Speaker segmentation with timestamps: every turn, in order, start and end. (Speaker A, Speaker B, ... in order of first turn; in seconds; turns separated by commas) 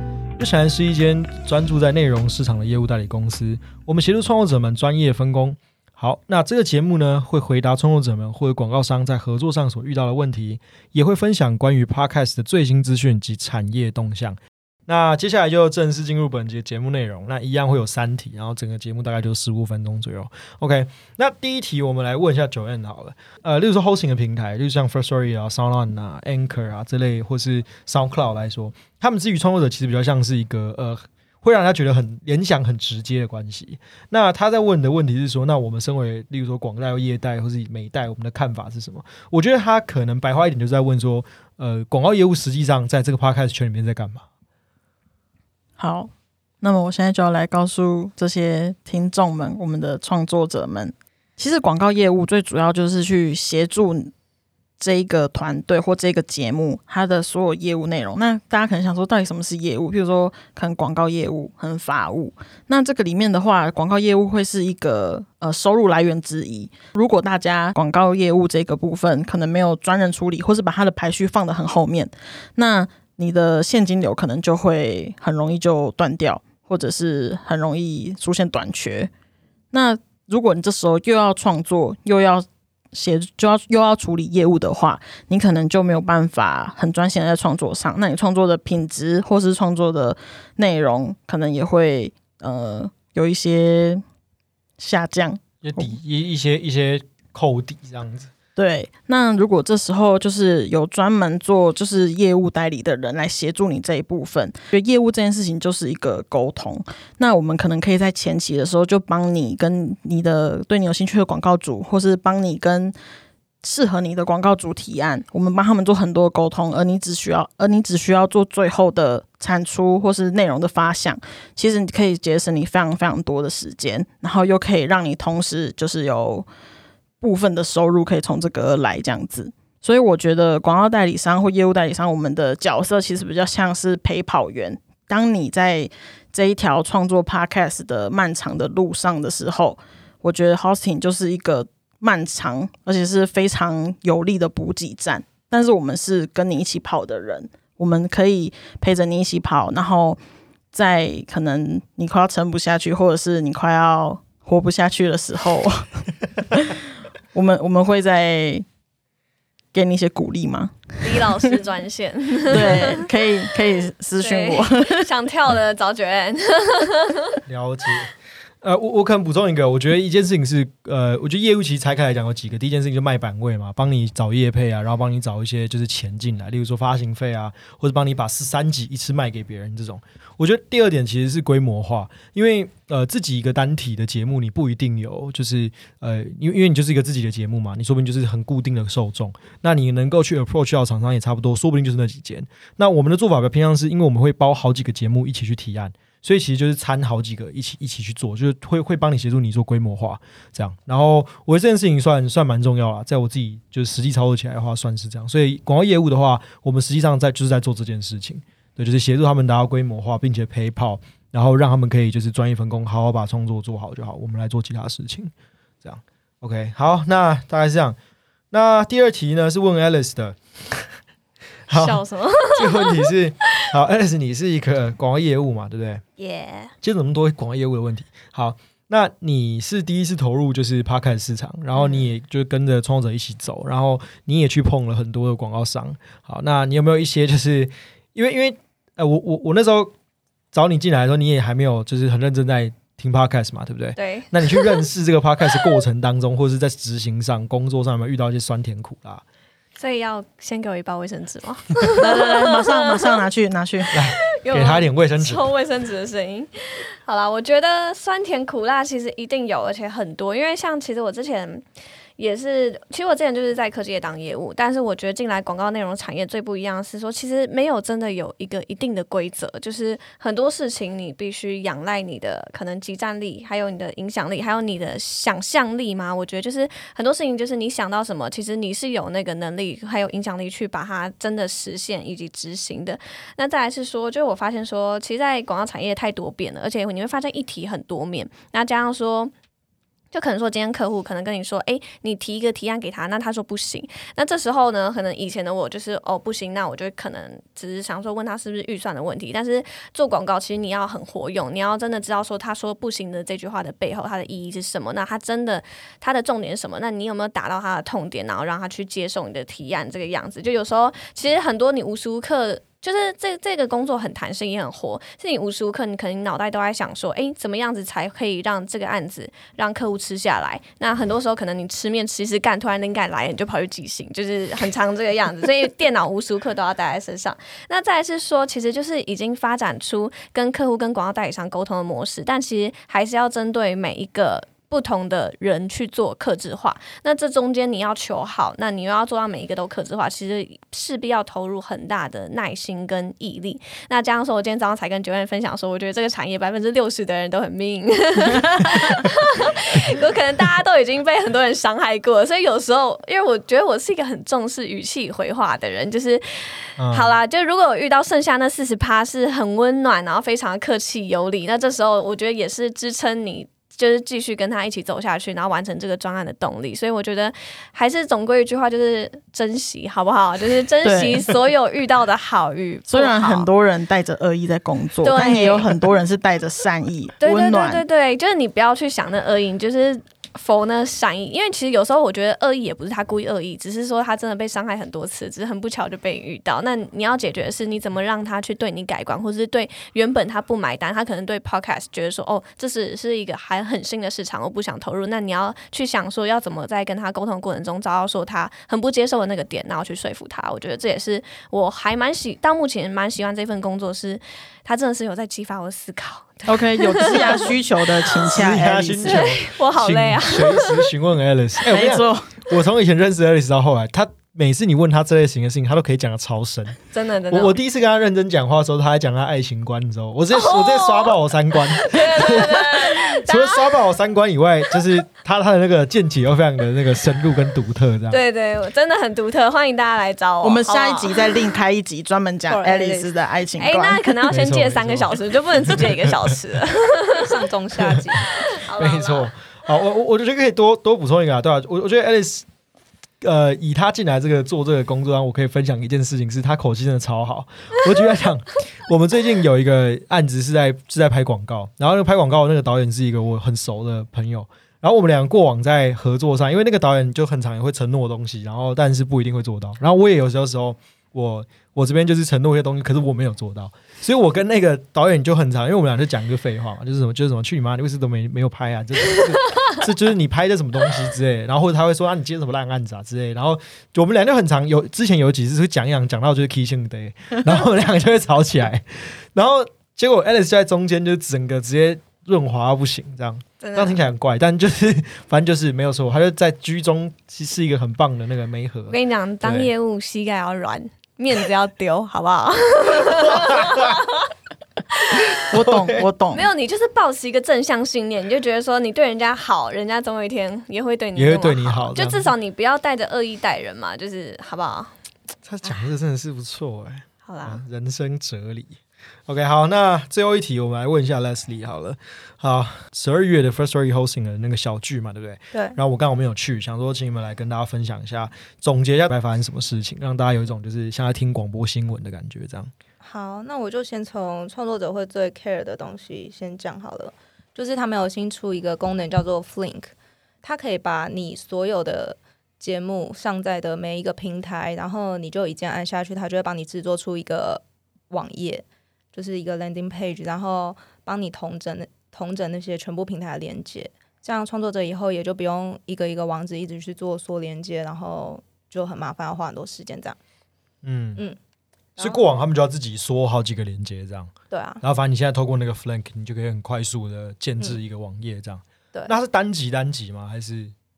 Speaker A: 0.4-44.2, Speaker B: 45.8-54.1, Speaker B: 54.8-79.1, Speaker B: 79.7-94.0, Speaker B: 94.8-96.0, Speaker A: 95.6-98.3, Speaker B: 98.5-112.9, Speaker B: 113.6-126.5, Speaker B: 127.2-150.2, Speaker B: 150.7-156.8, Speaker B: 157.3-158.6, Speaker B: 159.7-161.2, Speaker C: 161.0-163.0, Speaker B: 162.5-165.1, Speaker C: 164.2-167.4, Speaker A: 167.5-218.0, Speaker A: 218.5-220.9, Speaker A: 221.7-226.0, Speaker C: 221.7-223.6, Speaker C: 226.2-226.7, Speaker A: 226.8-239.9, Speaker C: 231.7-232.1, Speaker A: 240.5-249.2, Speaker C: 243.9-244.8, Speaker C: 249.8-252.9, Speaker B: 252.0-253.9, Speaker A: 253.9-255.5, Speaker C: 254.3-256.5, Speaker C: 257.0-261.6, Speaker C: 262.2-289.3, Speaker C: 290.1-373.5, Speaker A: 356.8-357.1, Speaker B: 370.8-371.3, Speaker B: 372.9-377.8, Speaker C: 375.0-375.7, Speaker C: 377.2-407.5, Speaker B: 406.5-409.3, Speaker A: 408.2-416.8, Speaker C: 409.0-410.9, Speaker B: 411.7-412.3, Speaker C: 416.9-417.6, Speaker A: 417.3-428.2, Speaker C: 420.3-423.6, Speaker C: 428.1-431.1, Speaker B: 430.4-434.1, Speaker D: 432.5-433.1, Speaker C: 433.6-437.3, Speaker A: 434.3-436.0, Speaker D: 437.2-438.3, Speaker C: 438.1-439.3, Speaker A: 438.8-442.4, Speaker A: 443.2-489.7, Speaker C: 483.6-484.0, Speaker C: 488.9-494.3, Speaker C: 494.9-495.4, Speaker B: 495.5-496.5, Speaker A: 495.6-496.1, Speaker C: 496.3-504.9, Speaker A: 501.1-502.3, Speaker A: 505.4-522.7, Speaker C: 507.2-507.6, Speaker D: 515.5-515.8, Speaker D: 523.0-550.2, Speaker A: 550.8-551.2, Speaker D: 552.0-552.3, Speaker A: 552.0-560.7, Speaker D: 554.5-554.8